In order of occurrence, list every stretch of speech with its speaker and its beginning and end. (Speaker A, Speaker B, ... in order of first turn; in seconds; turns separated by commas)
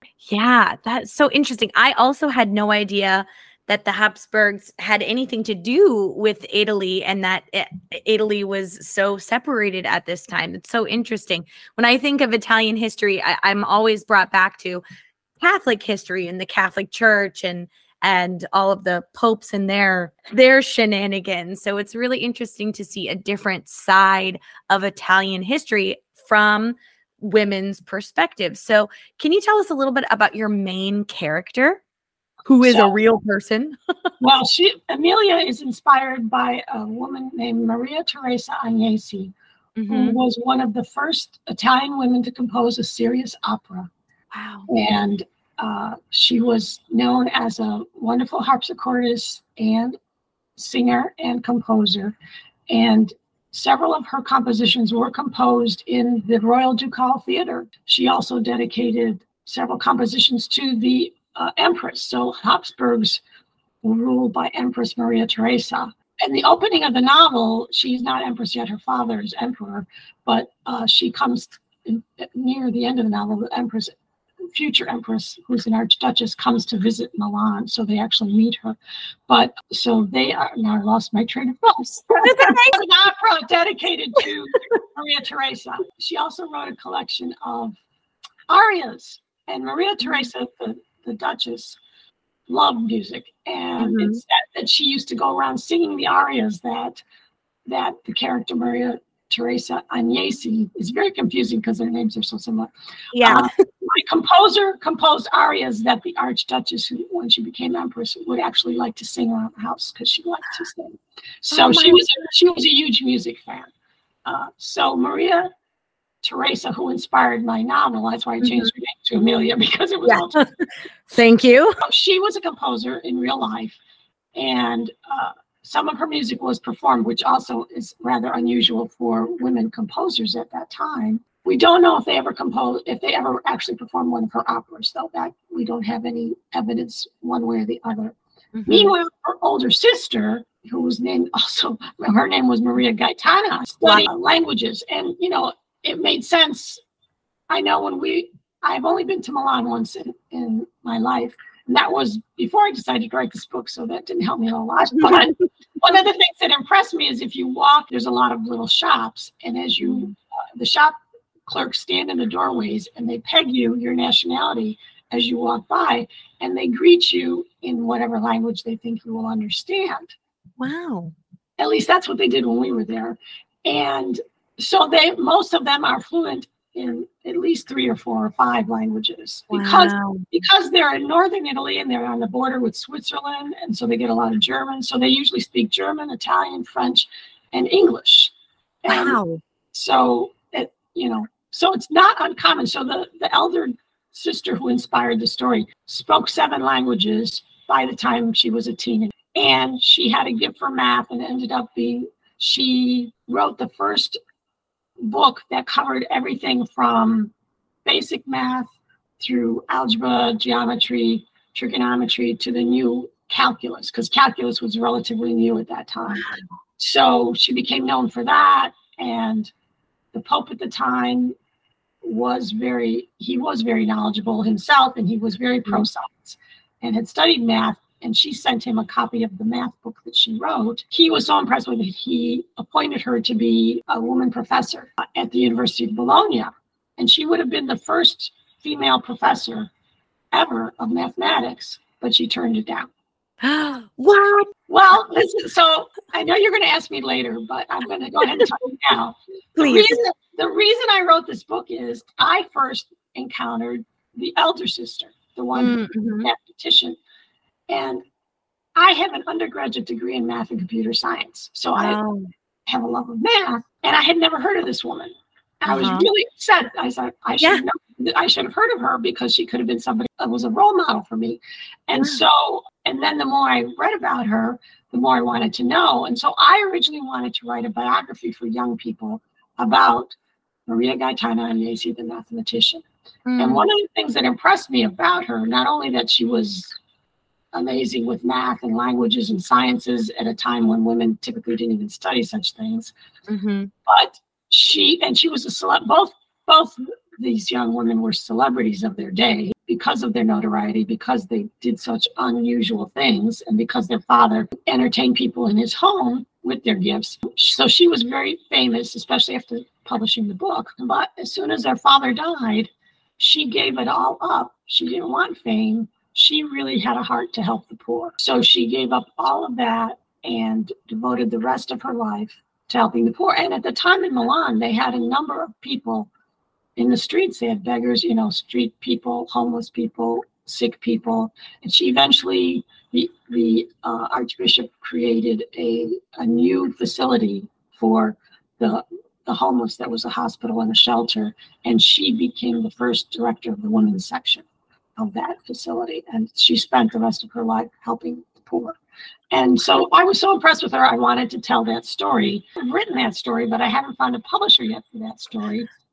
Speaker A: 0.2-14.8, Speaker A: 15.4-31.8, Speaker A: 32.5-33.9, Speaker B: 32.6-33.0, Speaker B: 34.2-39.3, Speaker A: 39.8-40.2, Speaker B: 39.9-43.9, Speaker A: 44.3-44.7, Speaker B: 44.7-50.0, Speaker B: 50.6-52.2, Speaker B: 52.7-63.2, Speaker B: 63.8-73.9, Speaker B: 74.5-78.8, Speaker B: 79.3-87.8, Speaker A: 82.2-82.8, Speaker B: 88.5-91.8, Speaker A: 90.0-90.3, Speaker B: 92.5-97.0, Speaker A: 93.8-94.2, Speaker B: 97.7-113.7, Speaker A: 103.1-103.5, Speaker A: 111.5-112.0, Speaker B: 114.3-115.5, Speaker B: 116.2-120.4, Speaker A: 118.4-118.7, Speaker A: 120.1-121.8, Speaker B: 121.8-123.8, Speaker B: 124.3-138.2, Speaker A: 138.6-138.9, Speaker B: 138.7-146.8, Speaker B: 147.5-161.0, Speaker A: 154.9-155.3, Speaker A: 159.8-160.1, Speaker B: 161.5-170.2, Speaker A: 170.6-171.1, Speaker B: 171.6-188.3, Speaker A: 179.5-180.3, Speaker B: 188.8-189.2, Speaker A: 188.9-189.4, Speaker B: 189.7-204.2, Speaker B: 205.0-207.3, Speaker B: 207.9-216.3, Speaker A: 216.1-216.4, Speaker B: 216.8-219.5, Speaker B: 220.1-221.3, Speaker B: 222.0-239.7, Speaker B: 240.3-242.9, Speaker A: 243.4-244.5, Speaker B: 244.7-257.0, Speaker A: 249.6-250.0, Speaker A: 255.6-256.3, Speaker B: 257.7-258.0, Speaker B: 258.8-262.0, Speaker A: 261.8-262.3, Speaker B: 262.7-280.1, Speaker A: 265.7-266.1, Speaker A: 272.0-272.2, Speaker B: 280.7-282.8, Speaker A: 283.3-283.6, Speaker B: 283.4-286.8, Speaker B: 287.5-292.9, Speaker A: 293.3-293.7, Speaker B: 293.9-326.1, Speaker B: 326.8-344.4, Speaker B: 345.0-348.8, Speaker B: 349.3-355.7